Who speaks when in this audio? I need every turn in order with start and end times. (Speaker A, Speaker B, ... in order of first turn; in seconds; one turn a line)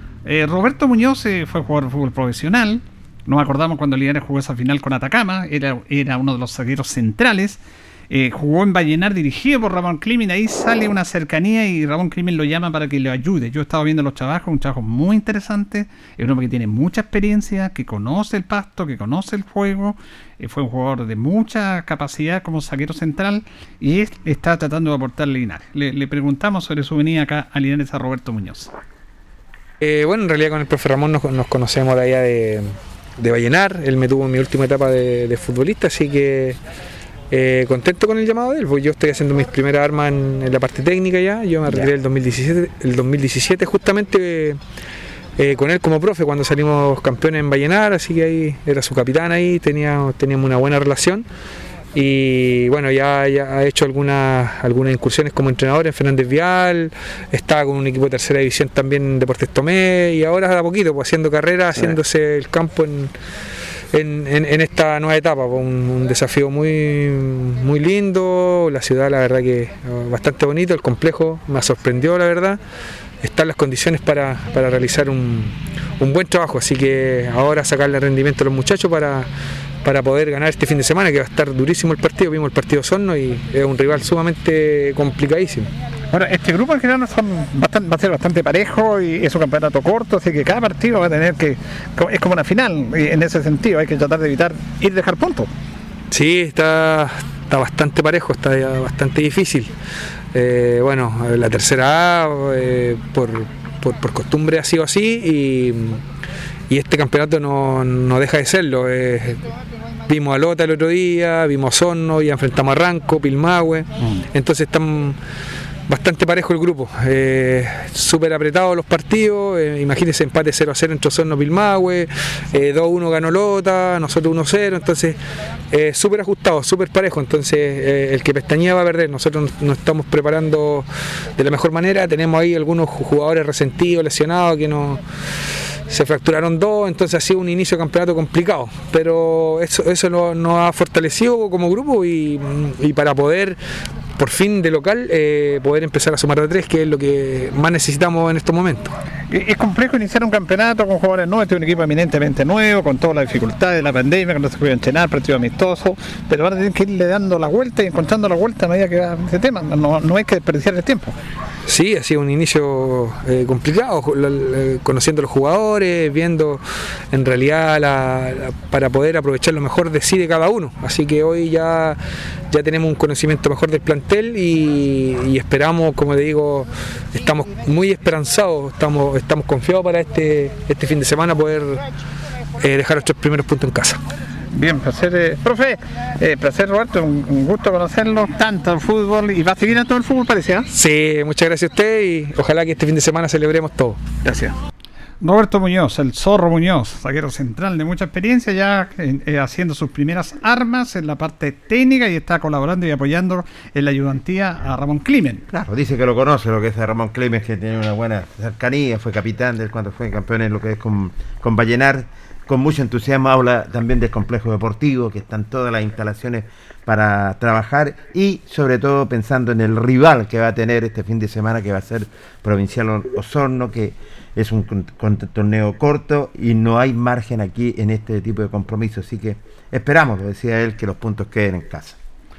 Speaker A: 0.2-28.7
Speaker B: 29.8-36.6
Speaker B: 37.3-44.6
Speaker B: 45.4-51.3
Speaker B: 51.9-63.1
Speaker B: 63.9-72.6
Speaker B: 73.2-79.3
Speaker B: 79.8-85.7
Speaker A: 86.1-95.5
Speaker B: 96.1-99.7
Speaker B: 100.3-106.0
Speaker B: 106.7-109.5
Speaker B: 110.1-115.2
Speaker B: 115.9-125.2
Speaker B: 125.7-135.0
Speaker B: 135.9-143.6
Speaker B: 144.2-148.9
Speaker A: 149.3-161.2
Speaker B: 161.7-172.0
Speaker B: 172.5-181.8
Speaker B: 182.6-184.0
Speaker A: 184.5-190.7
Speaker B: 190.7-194.0
Speaker A: 194.2-194.6
Speaker A: 195.2-205.4
Speaker C: 205.5-232.0